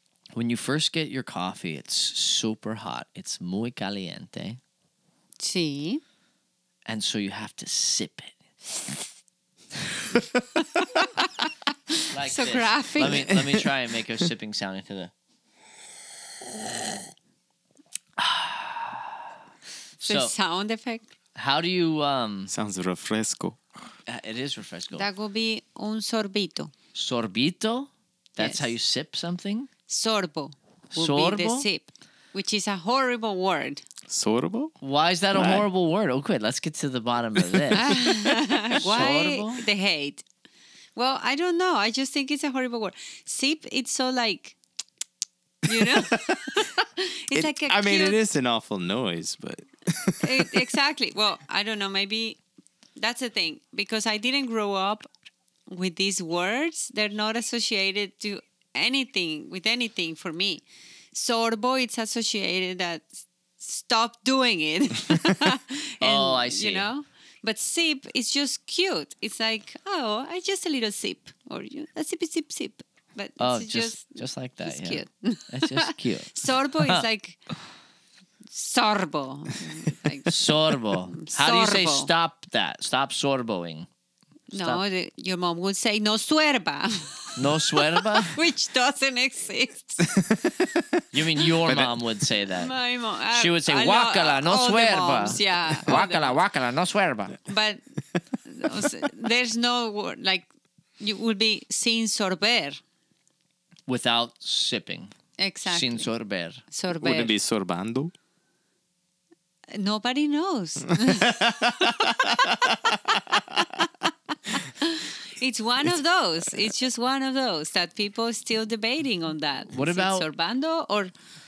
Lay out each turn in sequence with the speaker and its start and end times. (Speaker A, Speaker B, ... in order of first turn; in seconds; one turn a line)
Speaker A: 0.3-4.6
Speaker B: 5.4-6.0
Speaker A: 6.9-8.4
Speaker B: 11.2-13.3
Speaker A: 12.1-15.1
Speaker C: 13.0-13.7
Speaker A: 18.2-19.2
Speaker A: 20.0-20.4
Speaker B: 20.1-21.1
Speaker A: 21.4-22.5
Speaker C: 22.5-23.6
Speaker A: 24.1-25.1
Speaker B: 24.9-26.7
Speaker A: 26.9-29.7
Speaker B: 28.4-28.7
Speaker B: 29.9-33.8
Speaker A: 30.9-31.7
Speaker C: 34.1-34.8
Speaker A: 34.8-39.6
Speaker C: 35.3-35.7
Speaker B: 37.7-40.2
Speaker B: 41.0-44.6
Speaker B: 45.7-48.2
Speaker C: 45.8-46.4
Speaker C: 47.3-50.7
Speaker B: 50.2-52.4
Speaker B: 53.0-55.1
Speaker B: 55.7-77.4
Speaker A: 66.0-66.9
Speaker A: 73.4-77.0
Speaker B: 78.5-82.1
Speaker A: 80.3-83.9
Speaker B: 84.5-90.2
Speaker A: 84.5-84.8
Speaker A: 87.4-88.4
Speaker C: 90.1-90.8
Speaker A: 91.1-92.7
Speaker C: 91.6-92.0
Speaker B: 92.5-96.4
Speaker A: 93.3-97.4
Speaker B: 97.5-97.8
Speaker B: 98.5-100.5
Speaker B: 101.0-102.8
Speaker A: 103.9-105.1
Speaker B: 105.4-106.1
Speaker A: 105.7-106.6
Speaker B: 106.7-107.3
Speaker C: 107.0-108.1
Speaker B: 109.7-112.9
Speaker C: 111.1-113.4
Speaker B: 113.5-113.9
Speaker B: 114.5-121.1
Speaker A: 119.7-120.3